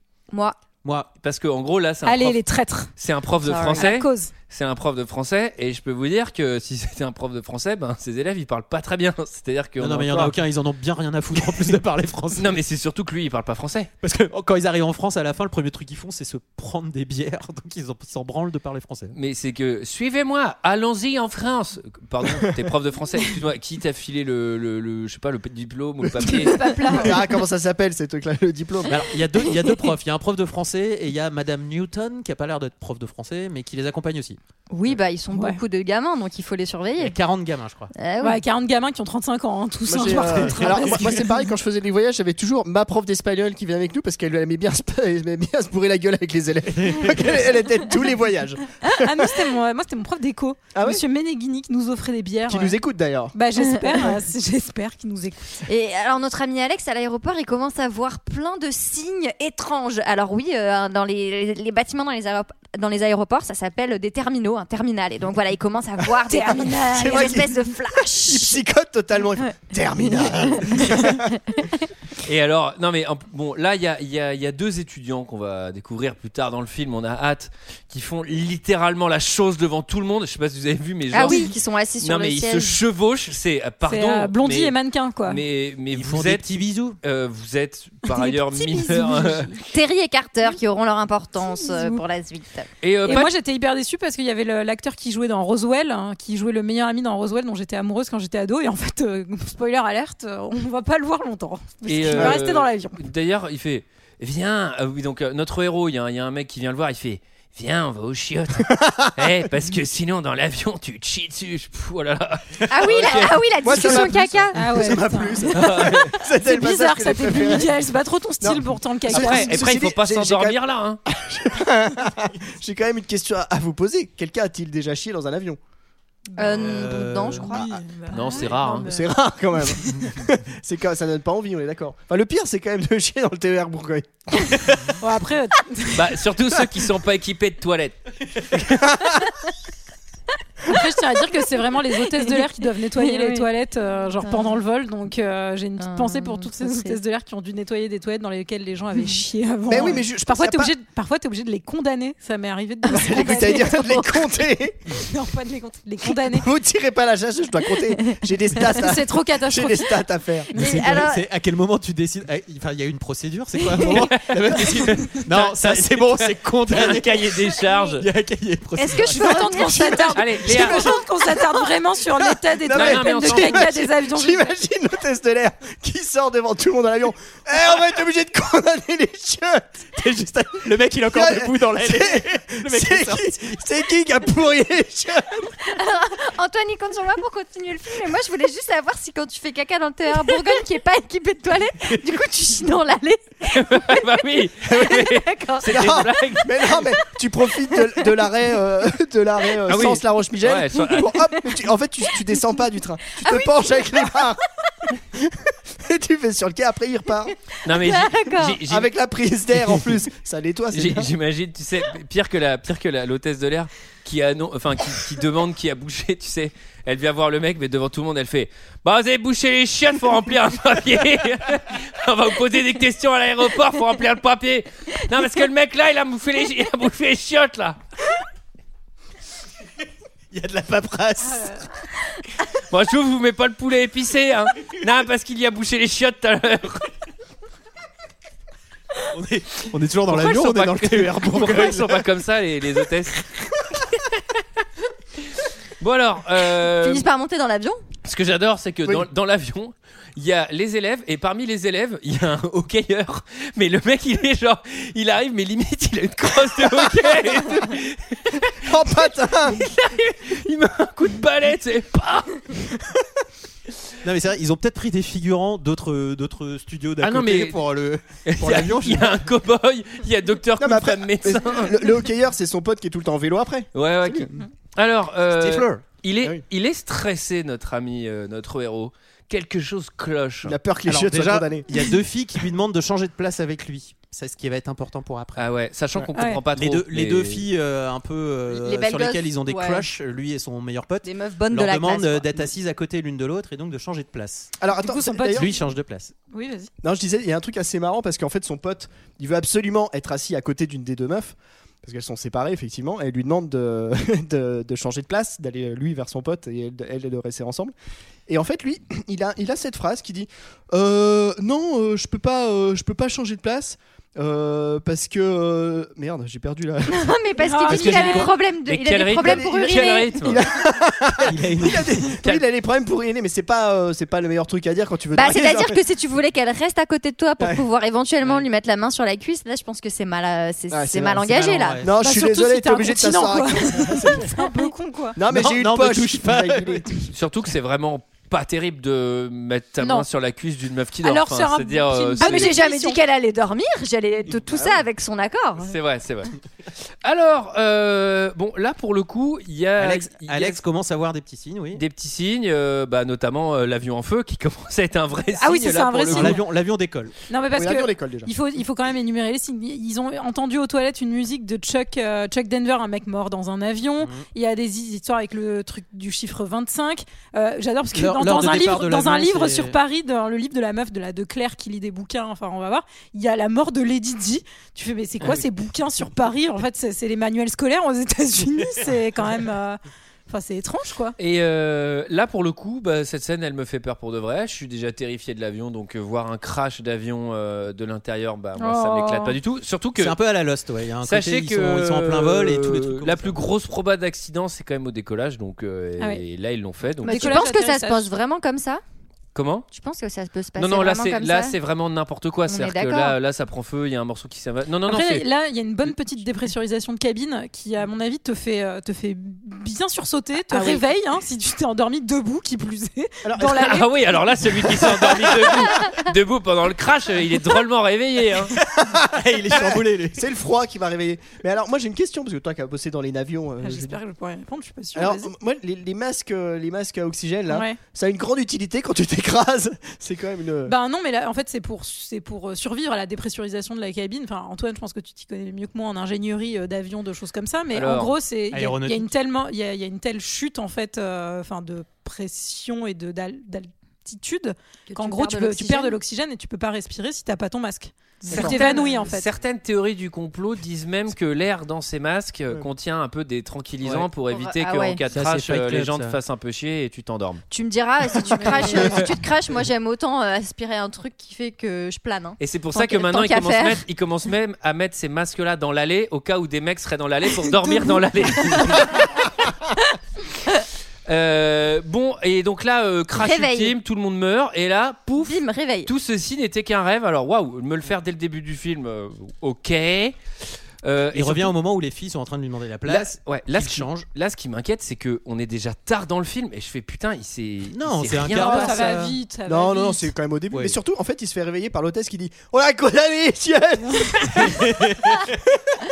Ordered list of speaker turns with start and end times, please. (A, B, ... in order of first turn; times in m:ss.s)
0:00.3-0:00.6 A
0:00.8-0:01.1 B
0:01.2-0:02.4 C
0:02.0-0:02.9 D
0:03.0-0:10.4 C
0:03.4-0:03.9 A
0:03.8-0:04.3 D
0:09.8-0:12.6 B
0:11.4-0:11.7 C
0:12.3-0:13.9 C
0:14.0-0:19.2 B
0:19.1-0:26.6 C
0:26.2-0:27.4 A
0:26.9-0:29.0 E
0:28.9-0:34.4 B
0:34.7-0:37.2 A
0:35.3-0:35.6 D
0:37.0-0:37.9 B
0:37.9-0:38.4 A
0:38.2-0:41.5 D
0:39.9-0:49.4 E
0:40.3-0:41.0 B
0:46.7-0:47.3 B
0:48.8-0:52.8 D
0:50.8-0:51.0 E
0:52.5-0:53.3 E
0:53.3-0:55.7 D
0:53.6-0:54.2 A
0:55.7-1:08.6 A
1:06.3-1:07.5 D
1:06.8-1:11.3 E
1:10.0-1:11.8 A
1:12.2-1:24.8 C
1:21.1-1:22.8 A
1:21.2-1:21.5 D
1:23.8-1:25.4 D
1:25.3-1:26.5 C
1:25.9-1:27.0 B
1:27.0-1:29.5 C
1:28.2-1:32.7 A
1:28.8-1:29.4 D
1:31.4-1:32.0 D
1:32.8-1:33.3 C
1:33.0-1:43.0 D
1:41.9-1:53.4 C
1:48.7-1:49.5 E
1:52.7-1:55.0 A
1:53.6-1:57.8 E
1:54.5-1:59.6 D
1:55.5-1:56.1 C
1:58.4-2:05.6 E
1:59.1-2:01.0 C
2:06.3-2:09.1 D
2:06.4-2:08.5 A
2:06.5-2:07.6 B
2:08.1-2:08.9 C
2:08.8-2:14.7 E
2:15.0-2:16.1 D
2:15.9-2:18.9 C
2:20.7-2:33.8 D
2:21.9-2:23.5 A
2:24.2-2:24.6 A
2:25.8-2:27.0 A
2:29.7-2:30.7 E
2:32.9-2:34.2 A
2:32.9-2:35.0 E
2:34.9-2:36.5 D
2:36.1-2:40.5 E
2:37.9-2:38.2 A
2:38.7-2:40.1 D
2:40.6-2:41.3 A
2:40.6-2:49.5 B
2:40.6-2:41.0 D
2:43.6-2:44.0 A
2:43.9-2:48.1 C
2:48.8-2:50.1 A
2:48.8-2:54.6 D
2:49.5-2:51.6 E
2:50.2-2:50.9 C
2:52.5-3:05.5 E
2:52.7-2:53.7 C
3:00.6-3:03.6 B
3:05.6-3:14.1 A
3:13.5-3:16.5 C
3:14.7-3:16.1 A
3:15.7-3:24.4 E
3:17.7-3:18.0 A
3:19.7-3:21.1 C
3:20.9-3:21.5 A
3:23.2-3:24.2 A
3:25.1-3:27.4 E
3:27.6-3:28.9 C
3:27.8-3:28.6 A
3:28.7-3:31.1 E
3:30.7-3:47.8 C
3:50.3-3:51.6 B
3:52.7-3:56.9 C
3:59.1-4:02.1 B
4:00.1-4:03.2 C
4:05.8-4:07.1 C
4:06.7-4:07.8 A
4:08.0-4:18.5 C
4:18.6-4:19.6 E
4:19.5-4:22.6 C
4:24.0-4:29.3 B
4:27.0-4:27.6 C
4:28.2-4:31.8 C
4:30.6-4:34.3 E
4:33.7-4:40.6 C
4:35.3-4:35.8 B
4:40.4-4:41.8 E
4:40.9-4:45.5 B
4:45.4-4:47.5 C
4:46.2-4:46.4 D
4:46.5-4:54.5 B
4:48.5-4:49.9 A
4:51.0-4:52.5 A
4:54.6-4:55.5 E
4:54.8-4:55.6 D
4:55.3-4:56.1 B
4:56.3-4:56.7 D
4:56.8-5:07.7 E
5:08.3-5:17.2 E
5:16.9-5:20.1 A
5:17.4-5:18.3 D
5:17.8-5:18.2 B
5:17.8-5:20.4 C
5:19.2-5:25.8 E
5:21.2-5:22.2 B
5:25.1-5:31.8 A
5:27.4-5:27.6 E
5:30.7-5:34.4 E
5:31.3-5:31.9 B
5:32.0-5:35.2 D
5:35.2-5:36.9 E
5:35.3-5:37.1 B
5:37.1-5:42.6 C
5:41.0-5:43.0 D
5:42.2-5:45.8 A
5:44.5-5:44.8 E
5:45.6-5:46.3 C
5:47.0-5:50.6 C
5:49.8-5:51.8 B
5:51.7-5:56.4 C
5:55.3-5:56.4 D
5:56.1-5:57.1 B
5:57.3-6:21.2 D
5:57.6-5:58.3 E
6:08.0-6:09.8 B
6:21.2-6:30.2 C
6:28.6-6:29.4 D
6:30.0-6:33.4 B
6:31.0-6:37.5 C
6:37.0-6:38.8 A
6:37.0-6:38.1 D
6:39.4-6:39.7 C
6:39.7-6:41.6 A
6:40.6-6:45.2 C
6:42.5-6:43.2 A
6:44.9-6:53.9 D
6:53.2-6:53.8 E
6:53.5-6:58.5 C
6:58.6-7:00.2 B
6:59.5-7:04.0 E
7:03.6-7:05.3 D
7:05.0-7:10.8 E
7:07.5-7:07.8 D
7:10.7-7:29.3 D
7:17.7-7:18.1 C
7:18.5-7:19.1 B
7:24.9-7:26.0 A
7:28.2-7:28.9 A
7:28.3-7:37.4 C
7:33.8-7:34.1 B
7:34.2-7:35.0 A
7:35.1-7:36.2 B
7:37.5-7:43.8 A
7:42.4-7:49.2 C
7:48.4-7:48.8 A
7:51.1-8:00.2 C
7:53.1-7:53.8 A
7:55.2-7:55.9 A
8:00.8-8:01.6 C
8:01.1-8:04.1 B
8:02.8-8:08.9 C
8:07.7-8:09.2 B
8:08.3-8:10.1 D
8:09.5-8:14.7 E
8:10.5-8:10.8 B
8:14.4-8:15.4 B